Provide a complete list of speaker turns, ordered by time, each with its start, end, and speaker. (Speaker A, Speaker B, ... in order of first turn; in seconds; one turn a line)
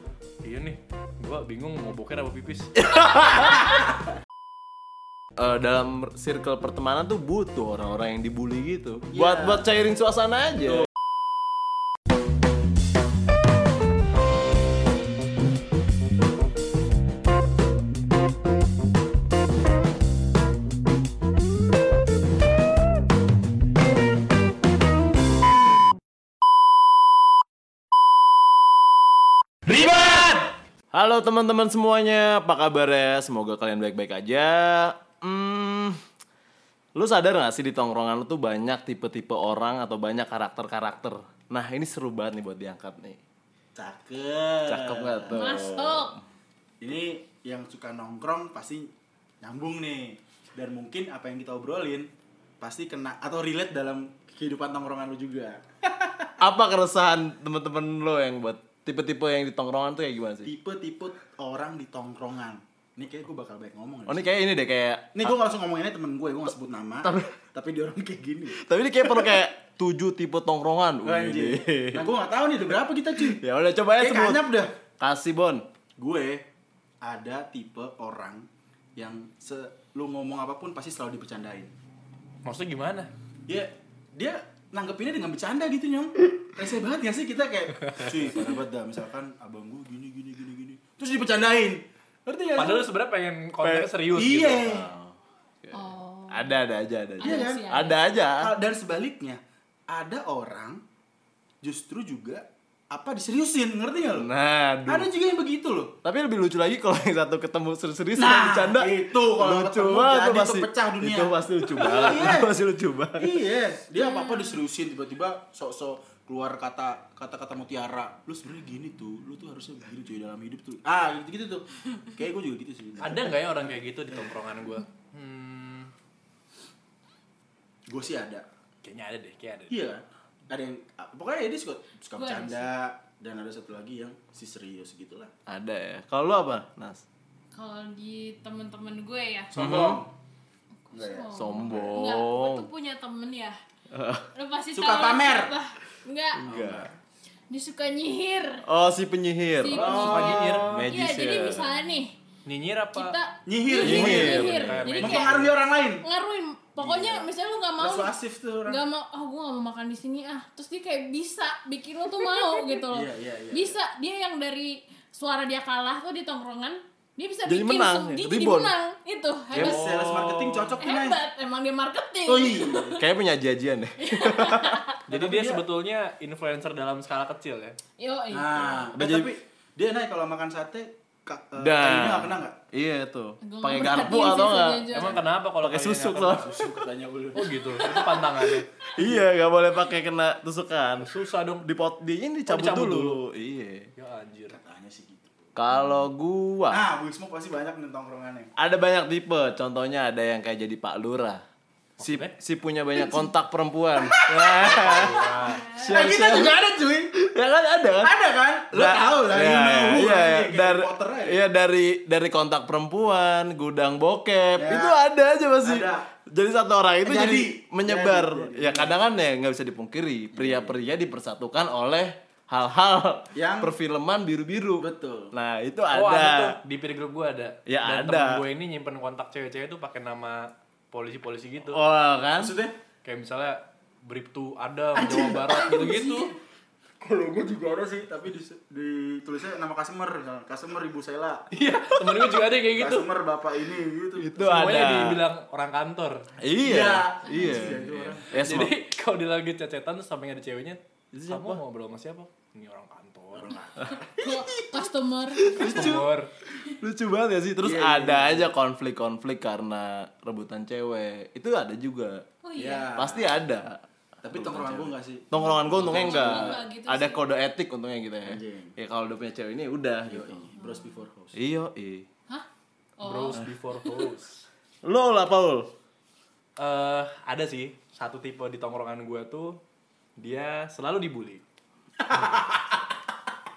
Speaker A: 0.4-2.8
Speaker B: 2.8-3.6
Speaker B: 5.4-10.9
Speaker C: 9.2-9.6
Speaker B: 29.7-36.0
Speaker B: 37.0-43.2
Speaker C: 43.8-45.9
Speaker B: 44.7-46.1
Speaker D: 45.3-46.2
Speaker C: 46.8-48.9
Speaker C: 49.4-52.1
Speaker C: 52.6-56.3
Speaker B: 56.4-60.5
Speaker C: 60.4-64.3
Speaker B: 64.1-65.3
Speaker C: 65.2-69.5
Speaker B: 67.0-67.3
Speaker B: 68.6-72.0
Speaker C: 71.0-73.4
Speaker B: 73.2-75.7
Speaker C: 74.0-74.7
Speaker C: 76.0-76.5
Speaker C: 77.0-81.7
Speaker A: 82.5-83.1
Speaker C: 83.5-92.9
Speaker A: 92.5-94.8
Speaker B: 93.6-98.5
Speaker C: 94.1-94.9
Speaker D: 95.7-96.6
Speaker D: 97.2-98.0
Speaker C: 97.2-97.8
Speaker C: 98.4-100.8
Speaker C: 101.6-104.3
Speaker B: 104.1-105.1
Speaker C: 104.9-106.0
Speaker B: 106.0-113.3
Speaker C: 108.2-112.5
Speaker C: 113.2-123.5
Speaker D: 114.0-114.6
Speaker A: 123.0-125.9
Speaker C: 127.9-128.5
Speaker A: 128.8-129.8
Speaker C: 129.7-135.3
Speaker D: 132.1-132.7
Speaker B: 135.5-137.0
Speaker D: 137.5-139.5
Speaker C: 139.5-140.1
Speaker B: 139.5-140.0
Speaker D: 140.9-143.6
Speaker C: 140.9-142.0
Speaker B: 141.3-142.7
Speaker B: 143.9-144.3
Speaker D: 144.3-146.5
Speaker C: 144.7-145.6
Speaker B: 146.4-146.9
Speaker C: 146.5-146.9
Speaker D: 147.5-148.7
Speaker B: 148.6-150.1
Speaker D: 149.6-152.2
Speaker A: 149.7-150.8
Speaker C: 149.8-150.7
Speaker B: 150.7-151.8
Speaker A: 152.5-153.2
Speaker D: 152.9-169.9
Speaker C: 153.5-156.0
Speaker B: 153.8-154.9
Speaker A: 153.8-155.5
Speaker C: 156.8-158.8
Speaker C: 162.9-163.8
Speaker B: 167.5-168.8
Speaker B: 169.5-170.8
Speaker C: 169.5-171.2
Speaker D: 170.8-173.0
Speaker C: 172.2-173.0
Speaker B: 173.0-174.8
Speaker D: 174.0-175.0
Speaker C: 175.1-175.7
Speaker A: 175.1-177.8
Speaker D: 178.0-178.9
Speaker C: 178.3-182.6
Speaker B: 178.9-179.3
Speaker B: 181.6-186.6
Speaker D: 183.4-185.2
Speaker A: 184.9-186.5
Speaker C: 186.2-188.1
Speaker A: 187.3-188.7
Speaker D: 187.8-188.2
Speaker B: 189.0-191.1
Speaker A: 191.0-191.7
Speaker B: 191.6-193.9
Speaker A: 192.5-193.2
Speaker A: 194.0-194.6
Speaker C: 194.5-195.5
Speaker B: 195.6-196.8
Speaker C: 196.7-198.5
Speaker B: 198.6-201.4
Speaker A: 202.0-202.3
Speaker B: 202.0-206.6
Speaker C: 202.9-203.3
Speaker C: 204.0-207.1
Speaker A: 204.8-205.7
Speaker D: 204.9-206.2
Speaker B: 207.1-208.1
Speaker C: 208.0-211.4
Speaker B: 208.7-226.6
Speaker C: 214.6-215.0
Speaker C: 215.6-216.1
Speaker C: 217.0-218.9
Speaker C: 220.3-220.8
Speaker C: 223.3-223.7
Speaker C: 224.8-225.3
Speaker A: 225.9-231.8
Speaker B: 227.7-228.4
Speaker B: 231.7-232.5
Speaker C: 232.4-232.8
Speaker A: 233.0-236.3
Speaker C: 235.0-236.0
Speaker D: 235.5-236.4
Speaker C: 237.0-241.4
Speaker A: 241.5-243.1
Speaker C: 242.8-244.9
Speaker B: 244.2-245.2
Speaker A: 244.4-246.3
Speaker B: 246.4-248.7
Speaker C: 246.6-248.3
Speaker A: 248.3-253.5
Speaker B: 251.1-251.6
Speaker C: 253.3-254.3
Speaker D: 254.1-255.9
Speaker C: 255.4-256.1
Speaker A: 255.6-256.3
Speaker B: 256.8-262.2
Speaker C: 257.6-258.5
Speaker D: 262.4-262.9
Speaker C: 262.6-263.4
Speaker B: 263.0-270.5
Speaker C: 264.2-266.6
Speaker D: 265.3-267.2
Speaker C: 268.3-268.8
Speaker C: 270.1-271.4
Speaker D: 270.6-271.0
Speaker B: 271.4-272.1
Speaker D: 273.0-273.4
Speaker A: 273.0-274.5
Speaker B: 274.8-275.7
Speaker A: 276.6-279.6
Speaker A: 280.2-281.4
Speaker C: 282.1-282.8